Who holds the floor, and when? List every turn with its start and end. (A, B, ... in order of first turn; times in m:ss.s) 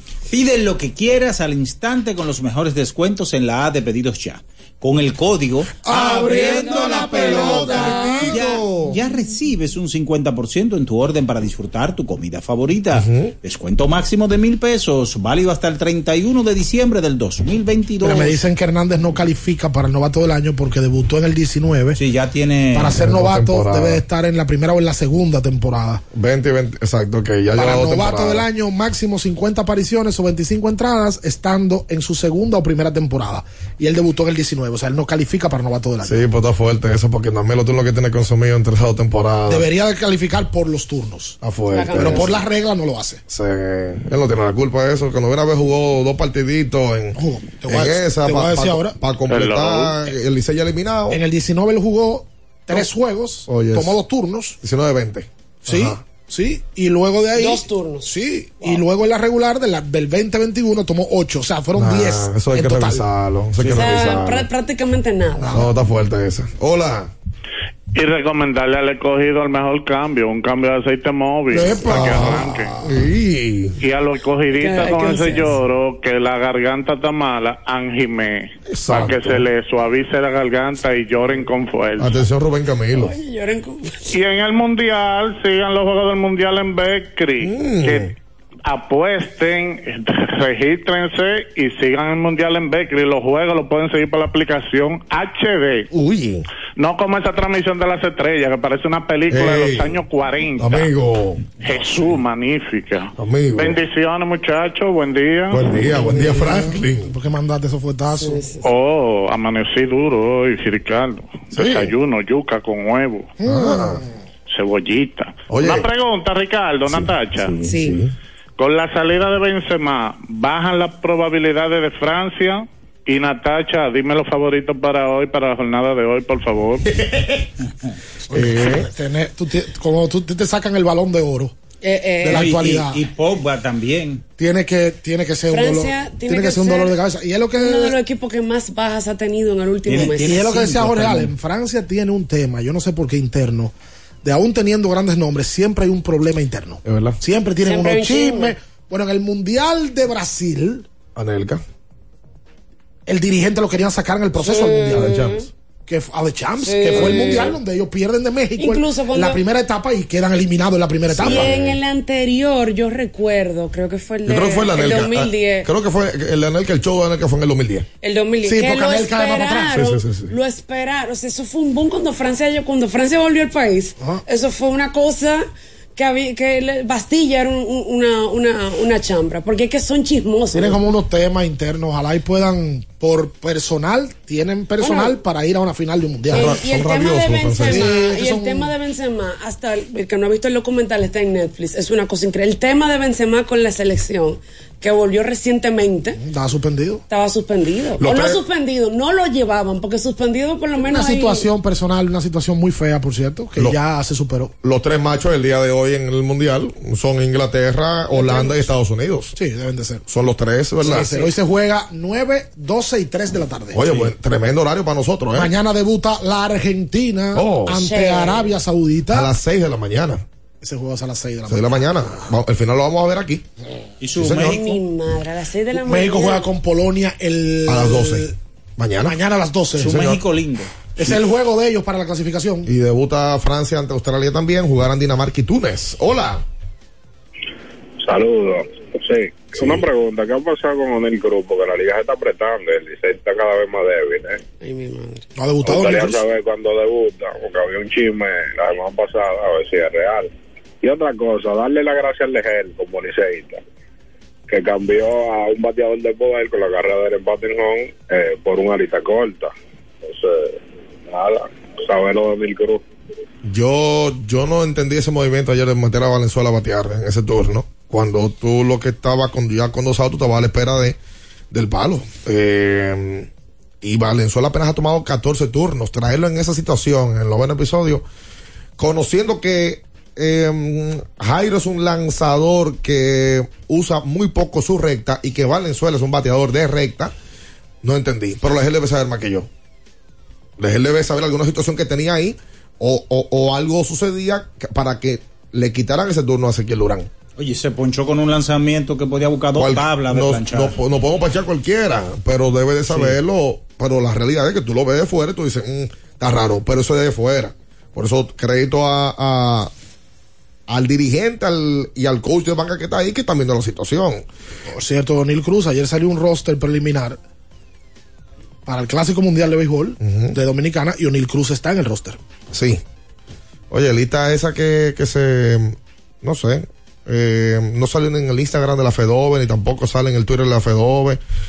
0:00.3-0:18.4 A
0:05.8-0:08.2 B
0:06.0-0:08.2 C
0:06.3-0:09.0 D
0:12.9-0:13.3 D
0:18.0-0:22.0 B
0:21.9-0:23.0 A
0:22.7-0:26.0 B
0:22.9-0:24.0 D
0:26.1-0:28.4 D
0:27.6-0:36.2 B
0:36.0-0:39.7 D
0:39.5-0:41.4 B
0:41.4-0:42.3 D
0:41.7-0:42.4 C
0:42.0-0:43.2 B
0:43.3-0:51.2 D
0:47.2-0:49.0 B
0:49.3-0:50.1 E
0:51.1-0:54.6 B
0:53.4-0:53.9 D
0:54.6-0:56.0 D
0:55.6-1:03.0 B
0:57.3-0:58.8 C
1:01.8-1:04.5 D
1:03.6-1:05.6 C
1:05.5-1:07.1 D
1:07.9-1:12.8 E
1:11.5-1:12.3 B
1:11.8-1:13.7 D
1:13.8-1:22.2 E
1:14.5-1:15.5 C
1:18.7-1:19.5 D
1:22.0-1:23.1 D
1:22.9-1:24.1 C
1:24.1-1:28.1 E
1:27.4-1:28.1 D
1:28.6-1:35.9 E
1:35.9-1:36.4 D
1:36.8-1:40.9 E
1:39.3-1:40.0 D
1:40.6-1:41.5 D
1:41.6-1:45.7 E
1:43.2-1:43.8 D
1:45.5-1:47.1 D
1:45.9-1:48.4 B
1:48.1-1:48.6 C
1:48.6-1:53.3 E
1:51.5-1:51.9 D
1:53.4-1:54.1 B
1:53.4-1:54.0 D
1:54.5-1:57.6 E
1:55.5-1:55.9 D
1:56.8-1:58.1 D
1:57.7-1:58.0 C
1:58.6-2:06.8 E
2:07.0-2:07.4 D
2:08.3-2:11.5 B
2:08.3-2:08.9 D
2:11.8-2:12.5 C
2:12.2-2:13.0 B
2:12.2-2:14.2 A
2:14.4-2:18.0 B
2:15.5-2:17.0 C
2:17.6-2:20.6 C
2:19.8-2:21.3 A
2:20.2-2:30.8 B
2:26.8-2:27.2 D
2:27.6-2:28.5 C
2:31.1-2:31.6 D
2:33.1-2:35.1 B
2:34.4-2:35.5 C
2:34.9-2:35.4 D
2:35.9-2:41.5 B
2:36.6-2:37.6 C
2:38.6-2:39.4 C
2:41.1-2:41.8 D
2:41.2-2:45.7 C
2:44.2-2:47.9 D
2:48.0-3:00.8 C
2:48.4-2:49.7 B
2:49.7-2:50.3 D
3:00.5-3:06.5 B
3:04.8-3:05.2 C
3:06.3-3:16.2 C
3:06.3-3:07.8 D
3:07.7-3:08.7 B
3:16.2-3:17.0 B
3:17.1-3:21.4 C
3:18.0-3:18.4 D
3:20.8-3:24.5 B
3:24.6-3:29.3 D
3:28.1-3:28.6 C
3:29.3-3:30.0 B
3:30.1-3:31.2 D
3:30.8-3:33.9 B
3:33.7-3:35.5 D
3:33.8-3:34.1 A
3:35.3-3:39.3 B
3:37.3-3:37.7 D
3:37.7-3:38.5 C
3:39.1-3:40.2 D
3:40.6-3:42.3 B
3:41.5-3:43.4 D
3:44.0-3:44.8 A
3:44.2-3:44.5 D
3:44.4-3:46.5 C
3:45.7-3:48.3 B
3:47.7-3:49.2 D
3:49.0-3:50.0 B
3:49.8-3:50.7 A
3:49.9-3:50.2 D
3:51.0-3:52.7 B
3:52.6-3:56.4 D
3:58.0-4:04.4 F
4:04.6-4:05.2 C
4:05.4-4:06.2 B
4:05.6-4:10.3 F
4:10.8-4:13.6 F
4:14.5-4:19.5 F
4:20.0-4:22.8 F
4:23.4-4:31.0 D
4:31.5-4:33.3 D
4:33.8-4:38.0 D
4:38.8-4:47.1 D
4:47.8-4:49.5 D
4:50.6-4:57.1 D
4:57.4-5:00.7 A
4:59.5-5:09.7 D
5:02.9-5:03.2 A
5:10.7-5:14.2 D
5:14.7-5:17.2 B
5:18.6-5:22.2 B
5:20.0-5:20.4 D
5:22.5-5:22.8 D
5:23.7-5:31.2 D